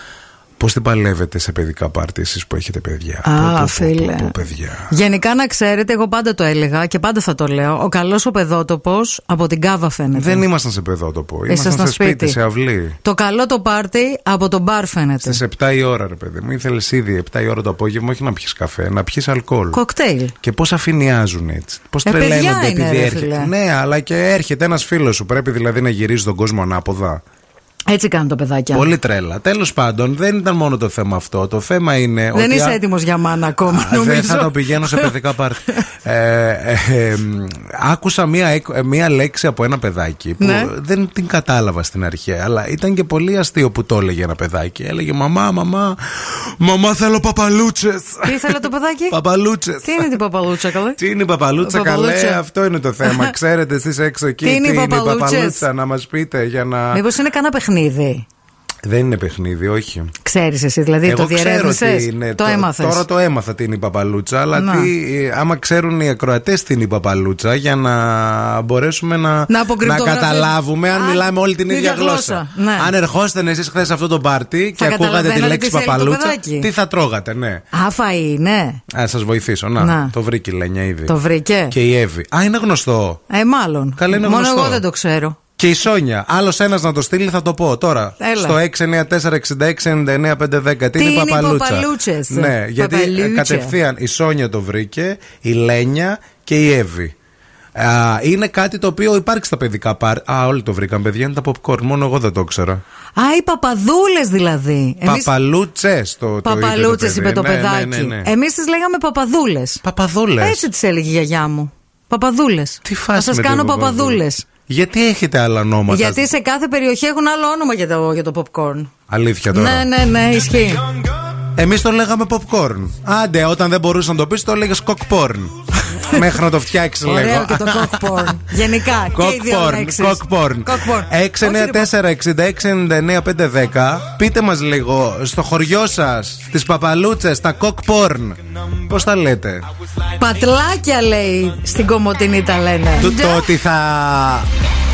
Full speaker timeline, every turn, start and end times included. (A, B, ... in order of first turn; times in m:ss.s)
0:00.6-0:04.9 A
0:03.2-0:04.3 B
0:04.9-0:10.4 B
0:10.1-0:13.0 A
0:11.5-0:12.4 B
0:13.0-0:15.4 B
0:15.2-0:19.8 A
0:19.7-0:20.3 B
0:20.4-0:27.2 A
0:22.0-0:23.5 B
0:27.9-0:28.9 B
0:28.7-0:32.8 A
0:32.3-0:35.2 B
0:33.6-0:50.1 A
0:40.4-0:40.7 B
0:48.2-0:49.1 B
0:49.8-0:51.0 B
0:51.0-0:57.0 A
0:51.6-0:52.4 B
0:53.0-0:53.3 B
0:54.4-0:55.6 B
0:56.9-0:58.2 B
0:58.8-1:00.1 A
1:00.2-1:03.0 B
1:01.0-1:17.6 A
1:04.5-1:04.9 B
1:09.5-1:12.9 B
1:14.8-1:16.7 B
1:17.7-1:18.8 B
1:18.9-1:21.1 A
1:19.8-1:20.1 B
1:21.1-1:21.7 B
1:21.7-1:23.2 A
1:23.3-1:25.4 B
1:24.0-1:24.8 A
1:25.6-1:37.1 A
1:28.2-1:28.6 B
1:31.0-1:33.8 B
1:37.8-1:42.8 A
1:43.2-1:45.3 B
1:45.0-1:48.3 A
1:46.4-1:49.8 B
1:49.8-1:50.6 A
1:50.4-1:54.5 B
1:52.8-1:56.2 A
1:55.9-1:58.9 B
1:59.1-1:59.9 A
1:59.5-2:00.8 B
2:01.6-2:08.2 A
2:07.0-2:11.9 B
2:09.1-2:19.6 A
2:20.2-2:23.5 B
2:23.0-2:24.4 A